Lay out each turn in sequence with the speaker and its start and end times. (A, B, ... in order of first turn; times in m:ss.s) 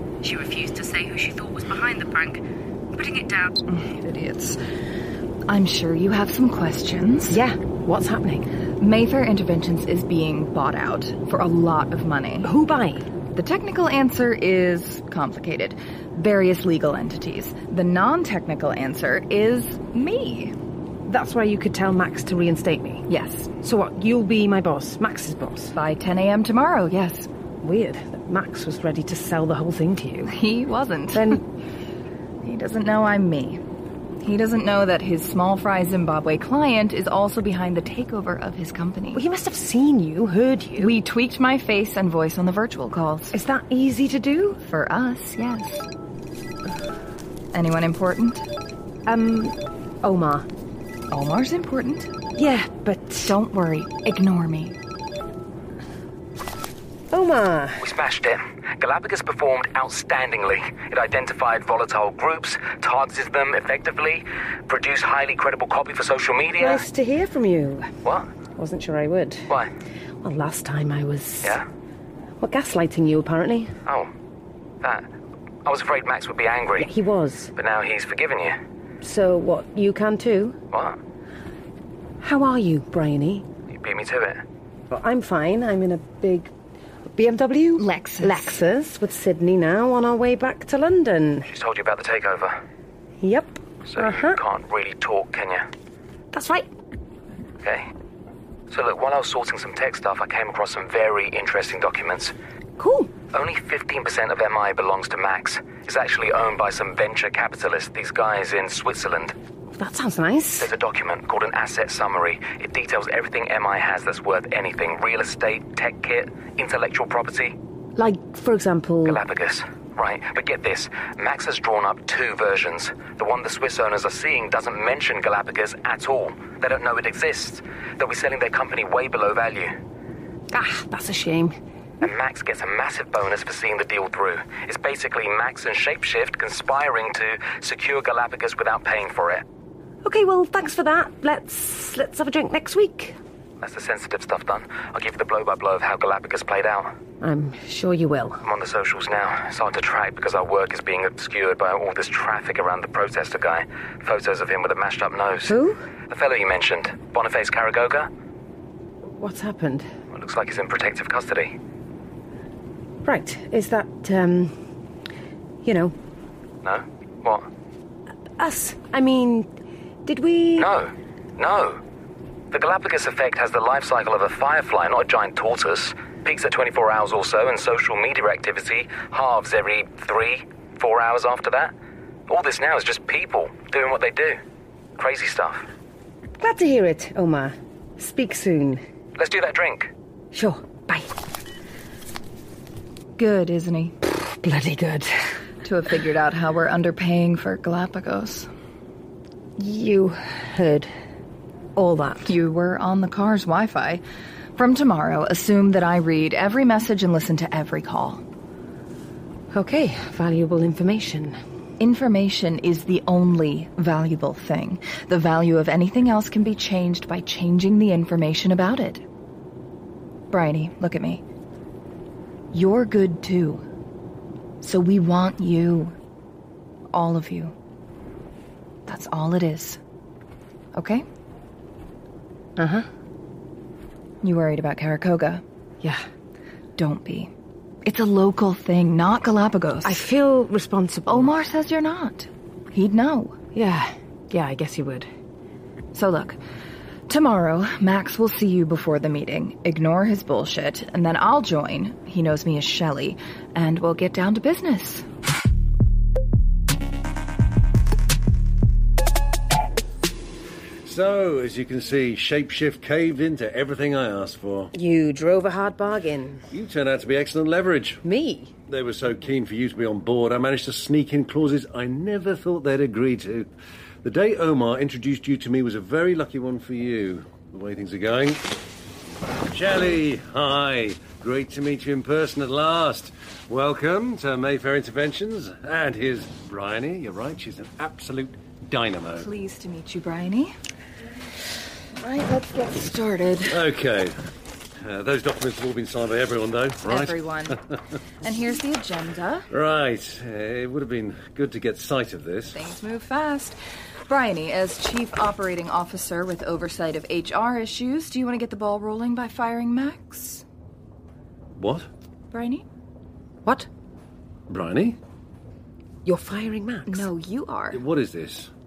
0:00.2-0:02.4 A
0:03.0-0:03.5 A
0:03.7-0:04.6 B
0:05.5-0:07.4 B
0:07.3-0:08.5 C
0:08.8-0:12.5 B
0:12.4-0:13.1 C
0:13.3-0:20.5 B
0:21.0-0:23.0 C
0:23.1-0:23.5 B
0:23.6-0:25.7 C
0:25.7-0:27.3 B
0:27.6-0:30.3 C
0:30.2-0:31.4 B
0:31.1-0:31.4 C
0:32.4-0:33.6 B
0:34.2-0:39.2 B
0:39.1-0:40.9 C
0:40.8-0:43.3 B
0:43.3-0:44.6 C
0:44.6-0:45.9 B
0:47.5-0:48.5 B
0:49.0-0:50.4 C
0:51.1-0:52.1 B
0:52.4-0:53.3 C
0:53.2-0:54.8 B
0:57.1-0:57.8 C
0:57.8-1:06.8 D
1:06.6-1:07.9 C
1:08.6-1:09.4 C
1:10.2-1:11.6 C
1:12.4-1:13.7 C
1:14.8-1:15.1 D
1:15.6-1:16.9 D
1:16.8-1:17.5 C
1:17.6-1:18.6 D
1:19.0-1:20.6 C
1:20.7-1:21.0 D
1:22.2-1:23.4 C
1:23.7-1:24.4 D
1:24.9-1:26.5 C
1:27.1-1:31.5 C
1:27.8-1:28.6 B
1:31.4-1:32.6 D
1:33.2-1:34.4 C
1:33.9-1:35.7 D
1:36.3-1:36.7 C
1:37.6-1:37.9 D
1:38.7-1:42.3 D
1:42.8-1:43.1 C
1:43.3-1:49.3 D
1:49.7-1:50.7 C
1:50.6-1:57.5 D
1:58.0-1:59.2 C
1:59.0-2:09.7 D
2:10.5-2:11.6 C
2:12.0-2:19.4 D
2:20.0-2:23.2 C
2:23.6-2:26.9 D
2:27.2-2:28.4 C
2:28.4-2:35.6 D
2:35.4-2:35.8 C
2:36.1-2:38.1 D
2:39.1-2:39.9 C
2:40.1-2:41.6 D
2:43.0-2:44.5 C
2:45.6-2:45.9 C
2:46.6-2:47.4 D
2:48.4-2:49.5 C
2:50.0-2:50.7 C
2:50.6-2:51.8 D
2:52.5-3:01.7 D
3:02.3-3:04.4 D
3:05.0-3:05.6 D
3:06.4-3:08.8 C
3:09.2-3:09.9 D
3:10.3-3:11.1 C
3:13.2-3:13.9 B
3:14.1-3:15.1 C
3:15.6-3:18.5 B
3:19.6-3:20.9 C
3:21.8-3:22.3 C
3:22.2-3:24.0 B
3:24.6-3:28.2 B
3:29.5-3:31.4 C
3:31.8-3:39.0 B
3:40.3-3:41.2 B
3:42.5-3:43.6 B
3:44.6-3:45.9 B
3:46.9-3:47.5 B
3:48.9-3:49.8 B
3:50.7-3:51.0 B
3:52.6-3:52.9 C
3:54.2-3:55.4 B
3:56.8-3:57.3 B
3:57.8-4:00.0 B
3:59.8-4:01.3 C
4:01.1-4:03.4 B
4:03.5-4:05.1 C
4:05.9-4:06.4 B
4:07.1-4:15.0 B
4:20.8-4:24.7 E
4:24.7-4:26.5 C
4:26.5-4:28.0 E
4:28.0-4:28.5 C
4:28.7-4:33.5 E
4:34.0-4:38.4 E
4:39.5-4:49.3 E
4:49.2-4:50.6 B
4:52.0-4:53.6 B
4:53.5-4:54.2 E
4:54.8-4:57.5 E
4:56.8-4:57.6 B
4:58.2-4:59.5 B
4:59.5-5:02.6 E
5:02.5-5:10.4 B
5:11.6-5:11.9 E
5:12.3-5:12.6 B
5:14.5-5:15.0 E
5:16.0-5:17.1 C
5:16.9-5:17.8 B
5:17.7-5:18.5 E